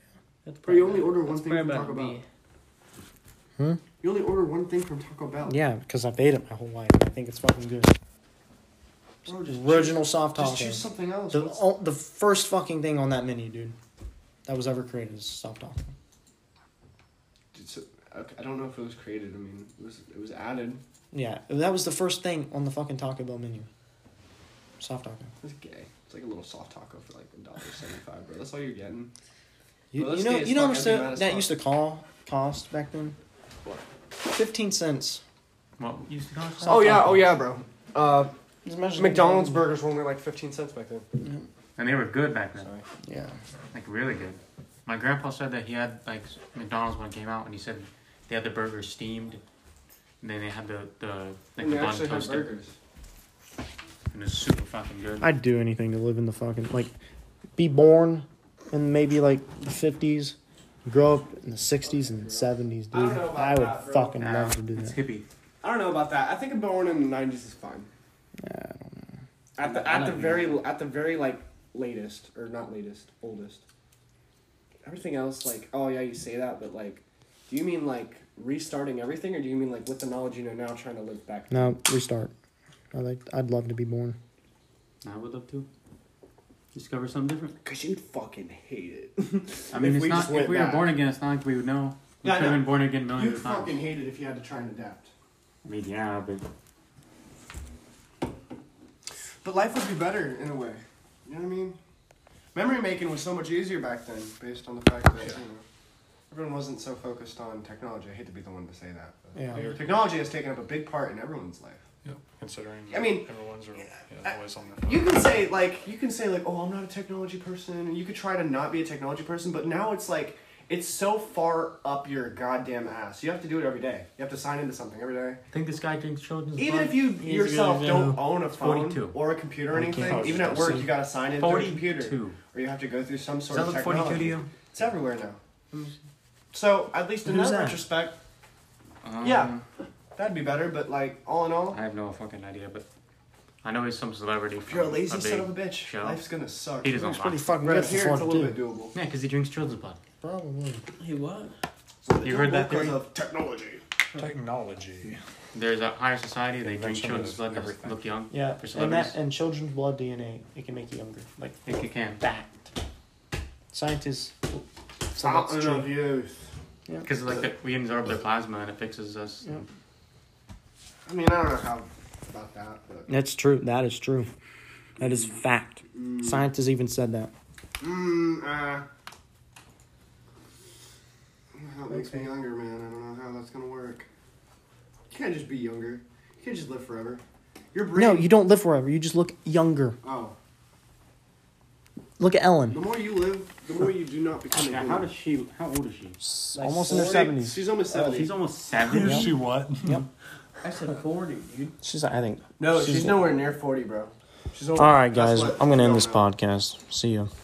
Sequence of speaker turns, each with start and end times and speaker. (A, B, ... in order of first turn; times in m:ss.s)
0:00.4-0:02.2 A
0:00.6-0:02.2 B
0:04.0-0:05.6 B
0:05.4-0:08.0 C
0:09.2-0:11.6 B
0:09.5-0:13.8 C
0:14.4-0:15.9 C
0:17.5-0:20.8 B
0:21.1-0:23.7 C
0:24.8-0:25.3 C
0:25.4-0:29.1 B
0:29.9-0:33.2 C
0:29.9-0:31.6 B
0:34.2-0:35.2 C
0:35.8-0:37.1 D
0:36.6-0:38.3 B
0:36.6-0:37.3 C
0:38.6-0:39.7 C
0:39.0-0:41.0 B
0:41.2-0:41.5 C
0:41.8-0:42.7 D
0:42.6-0:42.8 B
0:43.0-0:43.4 C
0:43.7-0:49.4 D
0:50.2-0:52.5 D
0:51.6-0:52.8 B
0:54.1-0:55.3 D
0:55.2-0:56.9 C
0:57.6-1:05.0 C
1:01.8-1:04.2 B
1:04.2-1:05.2 D
1:05.6-1:07.9 B
1:08.4-1:09.1 C
1:09.6-1:13.6 B
1:09.6-1:10.6 A
1:14.8-1:21.8 B
1:21.5-1:22.3 C
1:22.9-1:24.2 C
1:25.0-1:25.7 D
1:26.7-1:27.6 D
1:27.6-1:30.9 B
1:29.7-1:33.8 D
1:32.2-1:35.1 B
1:35.6-1:36.4 D
1:39.4-1:41.8 B
1:42.5-1:45.6 B
1:46.3-1:51.8 B
1:49.4-1:49.7 C
1:52.0-1:55.5 E
1:52.9-1:53.3 B
1:54.2-2:05.4 B
2:05.5-2:07.0 D
2:06.6-2:15.4 B
2:07.2-2:08.2 A
2:08.5-2:09.2 D
2:09.7-2:10.8 C
2:10.0-2:12.4 D
2:13.5-2:14.5 D
2:16.5-2:18.2 B
2:17.2-2:17.8 C
2:19.0-2:19.6 D
2:19.2-2:19.5 B
2:20.2-2:21.8 B
2:21.7-2:22.8 D
2:23.6-2:26.2 D
2:24.6-2:28.9 B
2:26.8-2:27.5 D
2:26.9-2:28.6 C
2:28.9-2:30.0 D
2:30.2-2:30.8 C
2:31.0-2:31.5 A
2:32.0-2:33.8 B
2:32.2-2:33.0 D
2:34.1-2:35.2 E
2:35.5-2:39.2 D
2:36.6-2:38.0 E
2:38.3-2:42.4 C
2:41.6-2:42.3 D
2:43.7-2:44.6 C
2:45.1-2:46.0 C
2:45.2-2:46.5 B
2:47.0-2:49.6 D
2:51.0-2:53.1 B
2:53.1-2:54.3 C
2:55.0-2:57.3 C
2:55.9-2:56.5 B
2:57.8-2:58.8 B
3:01.5-3:04.1 B
3:01.9-3:02.2 C
3:05.1-3:08.3 B
3:07.9-3:10.0 C
3:10.0-3:10.3 B
3:12.2-3:12.8 C
3:12.7-3:15.1 B
3:14.5-3:16.2 D
3:16.2-3:17.6 C
3:16.5-3:17.3 A
3:16.9-3:18.3 B
3:17.9-3:19.4 D
3:18.9-3:19.3 A
3:19.0-3:20.0 E
3:20.6-3:21.8 A
3:21.8-3:23.3 C
3:22.6-3:26.2 B
3:24.8-3:27.3 C